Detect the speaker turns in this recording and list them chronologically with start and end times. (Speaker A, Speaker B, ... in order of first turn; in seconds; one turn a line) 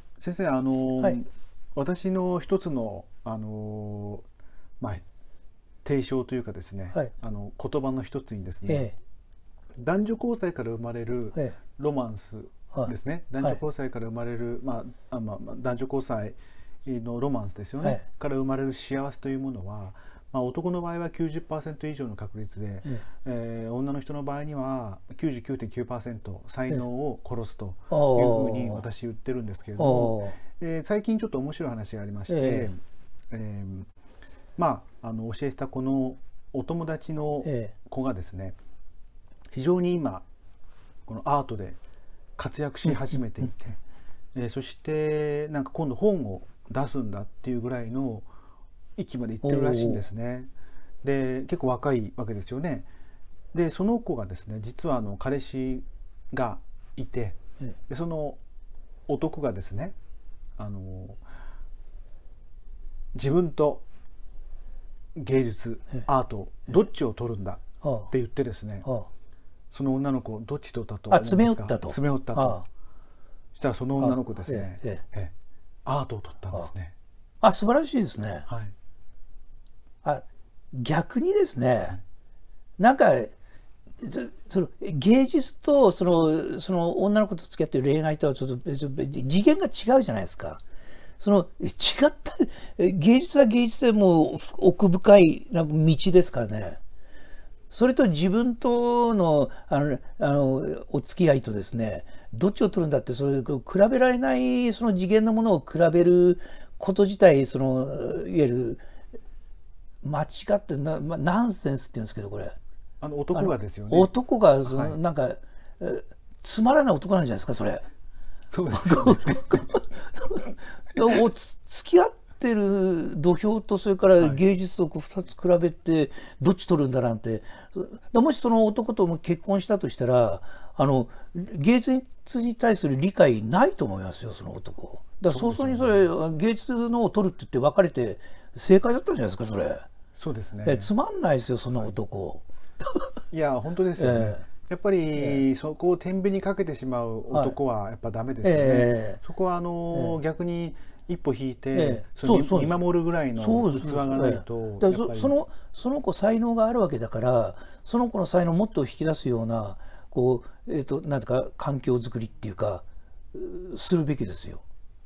Speaker A: 0.2-4.2
Speaker A: 5.8-8.9
Speaker B: 8.7-8.9
Speaker A: 9.8-32.8
Speaker B: 27.9-28.8
Speaker B: 29.8-30.4
Speaker B: 32.3-32.7
Speaker A: 33.3-33.9
Speaker A: 34.6-38.5
Speaker B: 37.4-37.7
Speaker A: 39.5-40.2
Speaker A: 41.1-41.8
Speaker A: 42.4-43.8
Speaker A: 44.3-48.3
Speaker A: 49.0-50.5
Speaker B: 49.4-50.0
Speaker A: 51.0-52.9
Speaker A: 53.5-57.4
Speaker A: 57.9-58.4
Speaker A: 59.1-59.9
Speaker A: 60.6-61.2
Speaker A: 63.1-63.8
Speaker A: 65.1-68.9
Speaker B: 67.8-68.1
Speaker A: 69.7-72.6
Speaker B: 71.1-72.6
Speaker A: 73.5-75.3
Speaker B: 74.0-75.0
Speaker A: 75.8-76.9
Speaker B: 77.4-78.5
Speaker A: 78.5-78.7
Speaker B: 80.0-82.0
Speaker B: 82.8-83.3
Speaker B: 84.0-90.6
Speaker B: 91.2-96.8
Speaker B: 97.7-108.8
Speaker B: 110.0-112.5
Speaker A: 113.0-114.1
Speaker B: 113.3-117.8
Speaker A: 114.6-115.0
Speaker A: 118.5-119.7
Speaker B: 118.7-139.8
Speaker A: 135.3-136.1
Speaker A: 140.1-140.9
Speaker B: 140.6-143.1
Speaker A: 143.3-155.4
Speaker B: 144.0-144.4
Speaker B: 148.4-149.2
Speaker B: 151.7-152.8
Speaker B: 153.3-164.6